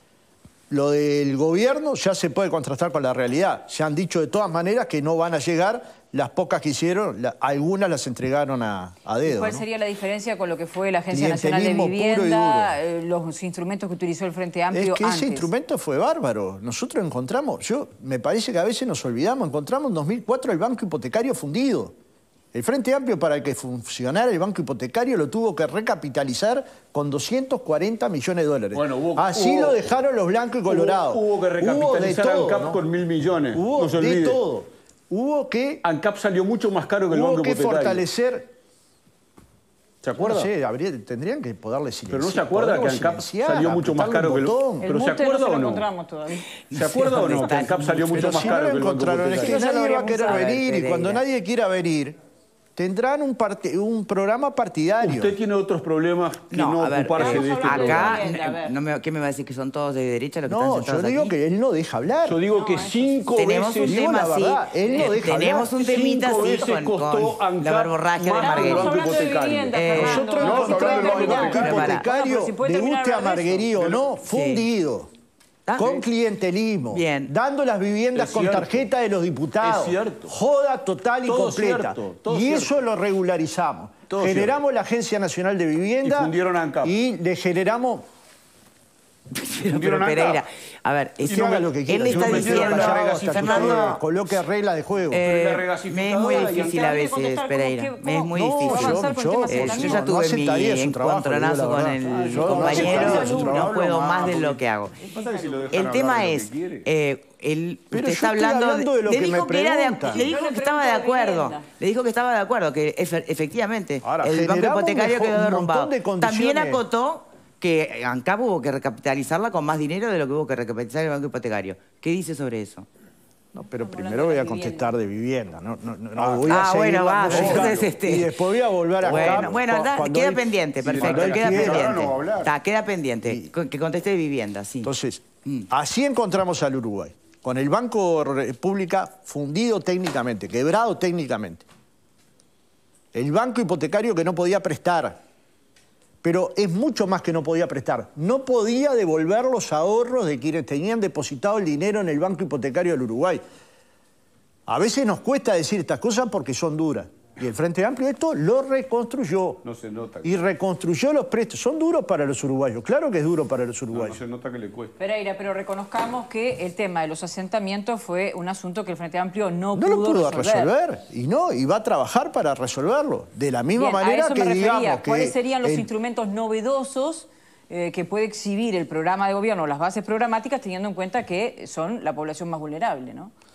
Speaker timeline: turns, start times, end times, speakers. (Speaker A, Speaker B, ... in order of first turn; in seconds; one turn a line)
Speaker A: 0.7-9.6
Speaker B: 9.2-15.5
Speaker A: 11.1-12.8
Speaker A: 14.7-21.9
Speaker A: 22.5-32.8
Speaker C: 28.7-29.9
Speaker C: 30.7-34.4
Speaker A: 33.5-35.8
Speaker C: 35.8-38.0
Speaker A: 37.1-38.5
Speaker C: 40.0-40.5
Speaker A: 40.2-44.9
Speaker C: 42.1-45.9
Speaker B: 44.8-46.5
Speaker D: 46.7-48.5
Speaker C: 46.7-49.6
Speaker A: 48.1-52.1
Speaker D: 49.4-51.2
Speaker B: 49.4-50.5
Speaker A: 52.8-55.3
Speaker C: 55.0-58.2
Speaker D: 56.5-61.3
Speaker B: 57.1-58.7
Speaker A: 60.5-62.4
Speaker C: 62.2-64.1
Speaker B: 62.5-63.3
Speaker D: 63.3-68.9
Speaker A: 63.8-65.7
Speaker C: 65.7-72.0
Speaker B: 68.4-73.7
Speaker D: 69.7-72.0
Speaker A: 70.5-75.1
Speaker C: 73.8-74.0
Speaker D: 74.3-74.7
Speaker D: 75.7-76.0
Speaker A: 75.8-88.0
Speaker D: 76.9-77.3
Speaker C: 78.2-78.8
Speaker C: 79.6-80.3
Speaker C: 81.2-82.7
Speaker C: 84.1-84.6
Speaker C: 86.0-86.9
Speaker D: 89.3-94.0
Speaker C: 89.7-90.4
Speaker A: 91.3-95.2
Speaker C: 91.3-94.0
Speaker D: 95.1-105.0
Speaker C: 95.2-96.8
Speaker B: 96.2-100.0
Speaker A: 98.3-103.8
Speaker C: 102.0-106.9
Speaker B: 102.6-103.6
Speaker B: 105.1-105.7
Speaker D: 105.7-122.9
Speaker A: 107.9-110.3
Speaker B: 110.1-111.7
Speaker A: 114.0-116.8
Speaker A: 123.5-132.1
Speaker B: 123.8-124.9
Speaker C: 126.2-127.9
Speaker D: 126.5-128.3
Speaker C: 129.0-129.6
Speaker D: 129.0-134.9
Speaker C: 130.8-132.5
Speaker A: 133.2-133.5
Speaker A: 134.8-141.6
Speaker A: 143.1-145.2
Speaker A: 146.2-153.4
Speaker A: 154.7-159.6
Speaker C: 159.6-160.4
Speaker A: 160.2-164.2
Speaker C: 163.9-165.0
Speaker B: 165.0-170.7
Speaker A: 169.7-175.9
Speaker B: 173.8-183.3